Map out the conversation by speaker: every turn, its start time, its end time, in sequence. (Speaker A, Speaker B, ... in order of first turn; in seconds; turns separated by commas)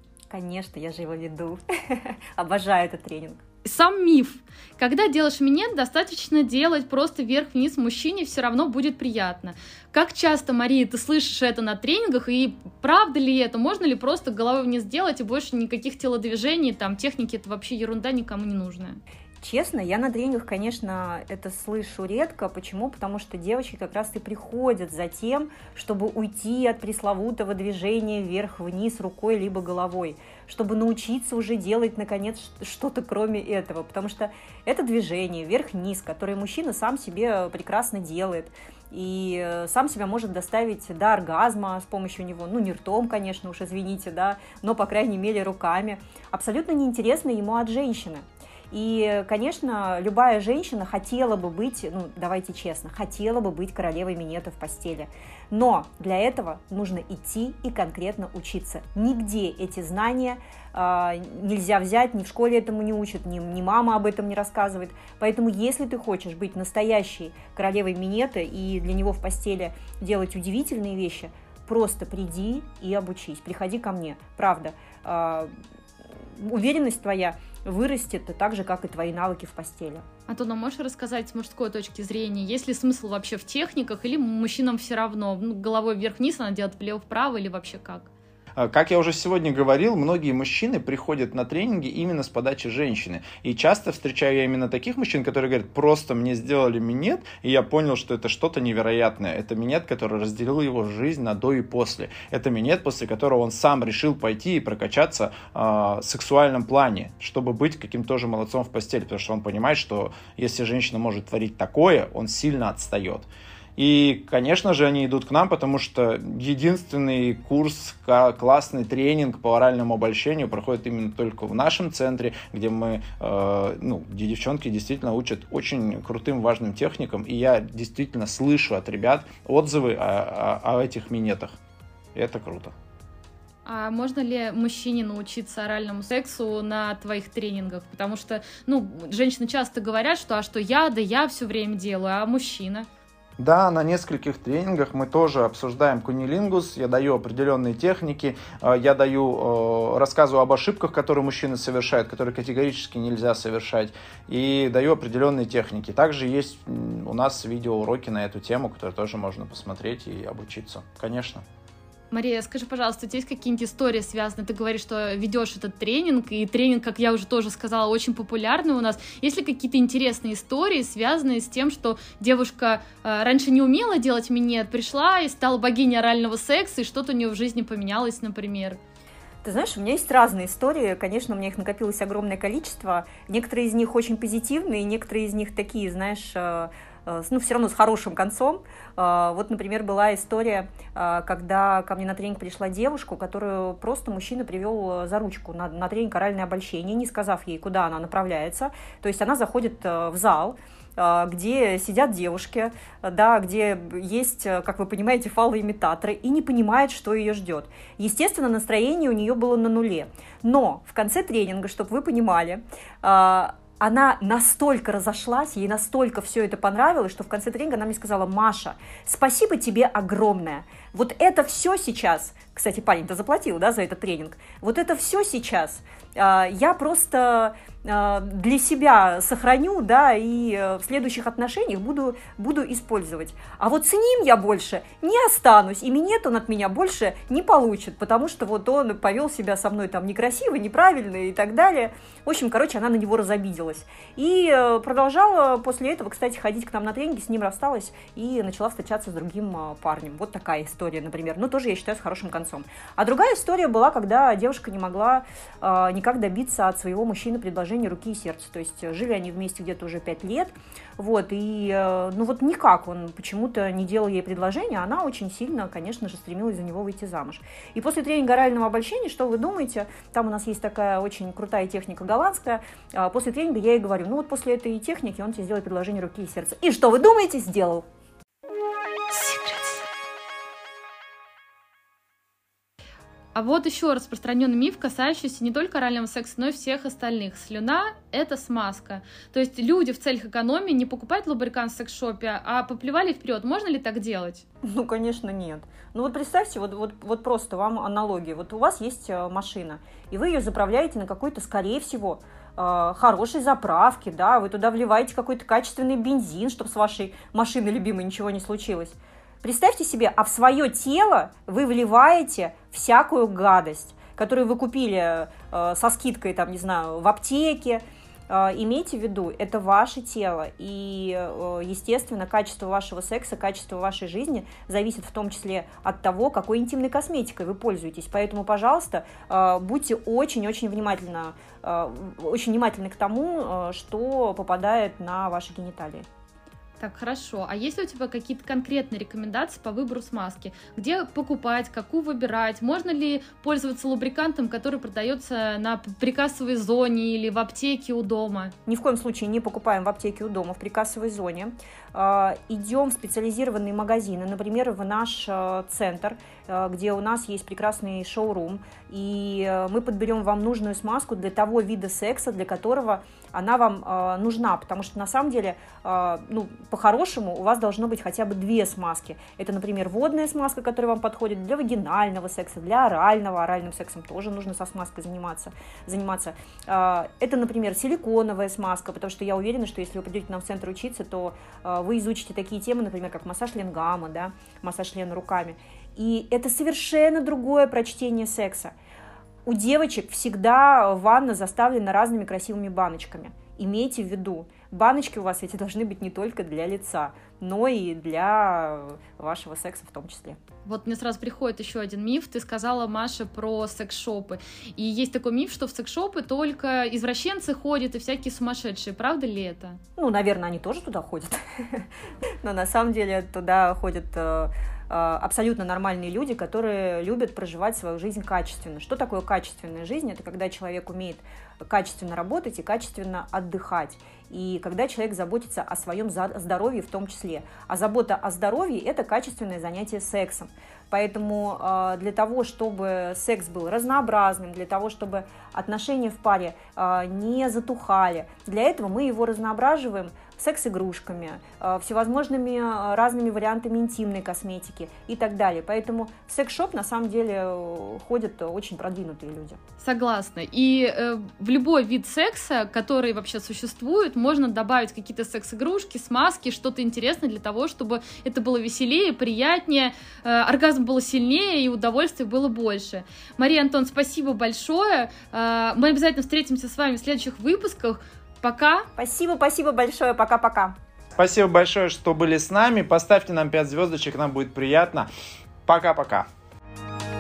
Speaker A: 0.3-3.4, Speaker B: 3.6-19.0, Speaker A: 19.4-75.5, Speaker A: 76.4-80.0, Speaker B: 80.3-88.1, Speaker C: 88.6-131.5, Speaker C: 132.2-132.7, Speaker B: 133.7-142.9, Speaker C: 143.4-161.4, Speaker B: 162.1-178.8, Speaker A: 179.4-277.9, Speaker B: 279.1-279.7, Speaker B: 283.3-294.4, Speaker A: 294.6-336.1, Speaker B: 336.8-348.5, Speaker A: 348.7-388.8, Speaker A: 389.5-400.4, Speaker B: 400.6-409.8, Speaker A: 410.0-411.9, Speaker A: 412.4-449.6, Speaker B: 449.8-468.9, Speaker A: 469.0-470.8, Speaker C: 471.2-475.1, Speaker C: 475.7-476.3